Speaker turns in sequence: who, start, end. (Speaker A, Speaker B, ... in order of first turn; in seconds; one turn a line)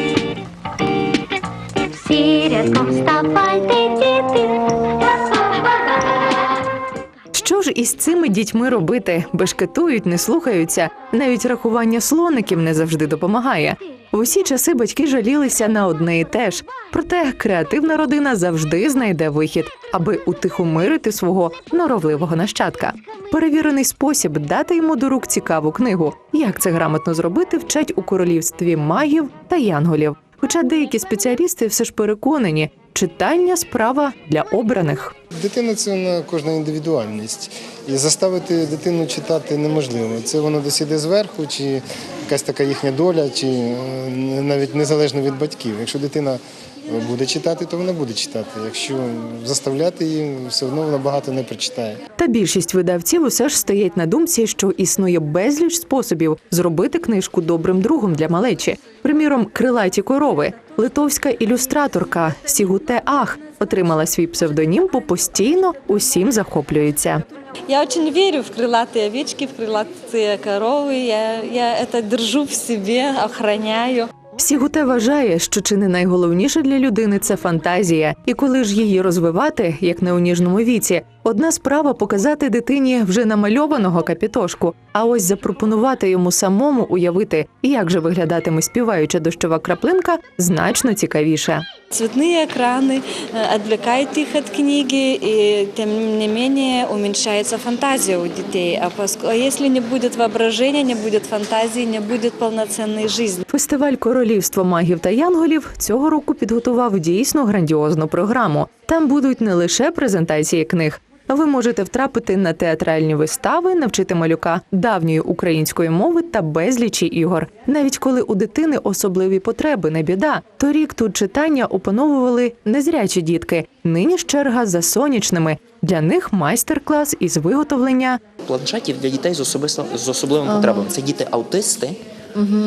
Speaker A: 1.8-6.2
Speaker B: 7.3-35.2
Speaker C: 35.3-52.0
Speaker B: 52.2-67.2
Speaker D: 67.7-74.1
Speaker B: 74.4-91.7
Speaker D: 91.9-103.4
Speaker B: 103.5-128.2
Speaker E: 128.4-132.0